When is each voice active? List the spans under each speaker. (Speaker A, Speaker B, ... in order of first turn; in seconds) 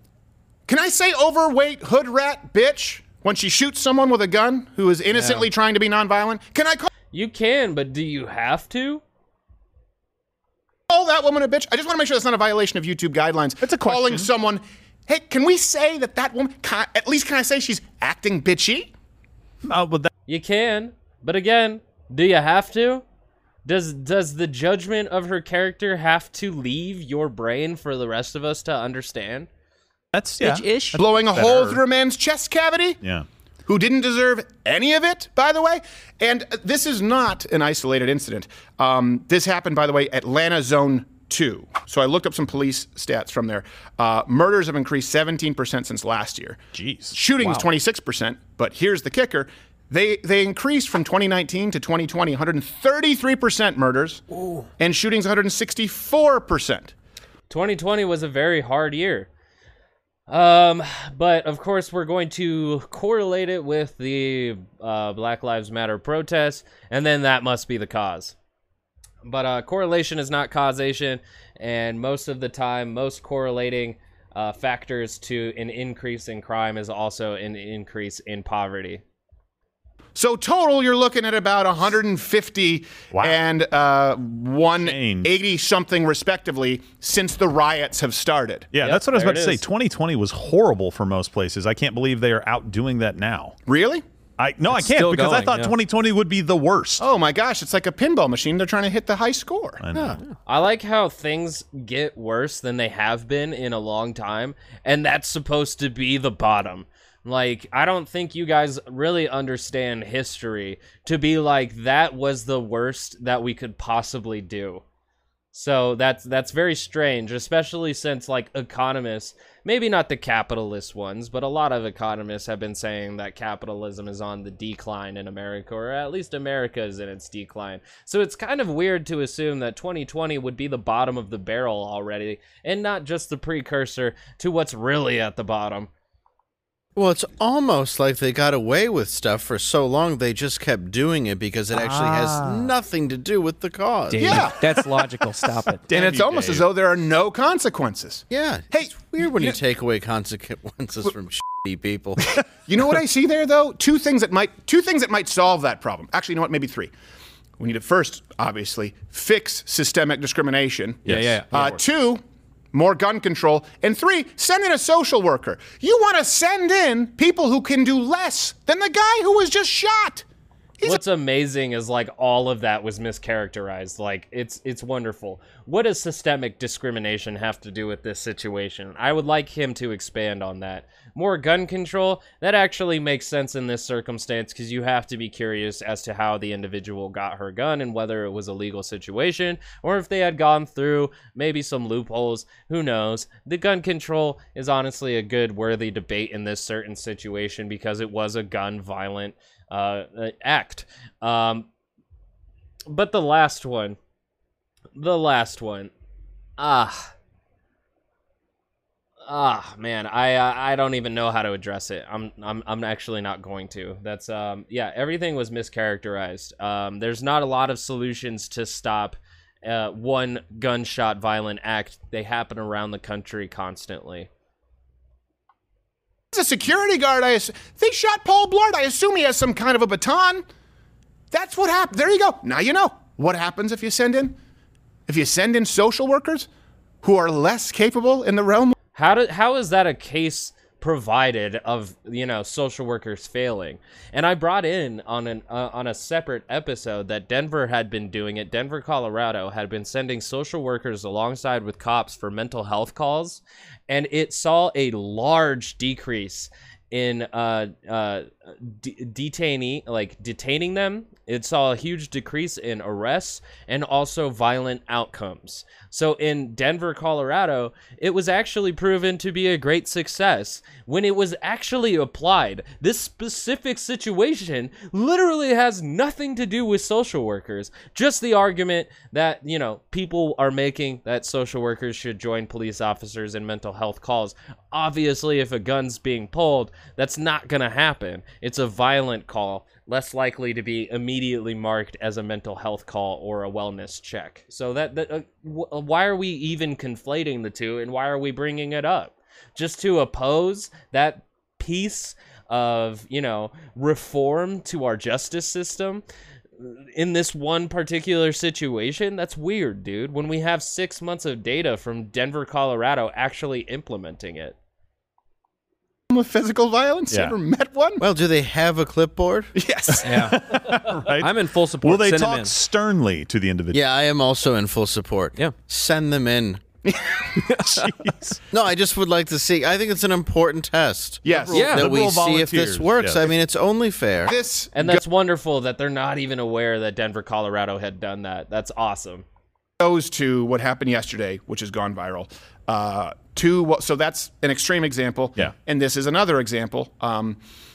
Speaker A: 0.7-6.9, 10.9-18.9, 30.9-33.0, 33.6-46.6, 47.1-54.2, 54.8-56.9, 80.1-88.7, 93.7-94.0, 97.0-99.8, 144.1-144.6, 145.9-148.9, 152.7-156.9, 157.6-162.2, 162.7-170.2, 226.3-230.4, 231.3-234.3, 235.1-236.5, 237.0-238.7, 316.1-318.0, 319.6-320.4, 326.8-327.4, 331.2-331.7, 334.2-335.0, 339.8-347.4
Speaker B: 5.1-5.5, 30.4-31.0, 94.7-95.7, 144.1-146.1, 161.0-161.8, 320.0-322.5, 331.3-331.9
Speaker C: 7.1-9.0, 20.3-23.0, 23.6-29.5, 54.3-54.6, 57.5-59.3, 60.3-68.3, 69.2-79.0, 88.8-89.6, 100.5-114.8, 115.5-135.9, 170.8-201.7, 202.9-204.0, 204.9-205.9, 206.6-207.1, 209.2-224.3, 238.9-306.0, 306.6-314.6, 334.7-339.2
Speaker D: 13.8-14.3, 19.6-20.1, 30.1-31.8, 46.7-47.5, 83.1-83.4, 84.8-85.3, 88.7-93.6, 94.4-97.0, 99.8-100.2, 141.7-142.5, 145.9-146.7, 317.1-317.4, 319.9-323.8, 331.5-333.3
Speaker E: 136.9-144.5, 148.3-152.2, 318.0-319.5, 323.7-326.6, 328.5-334.4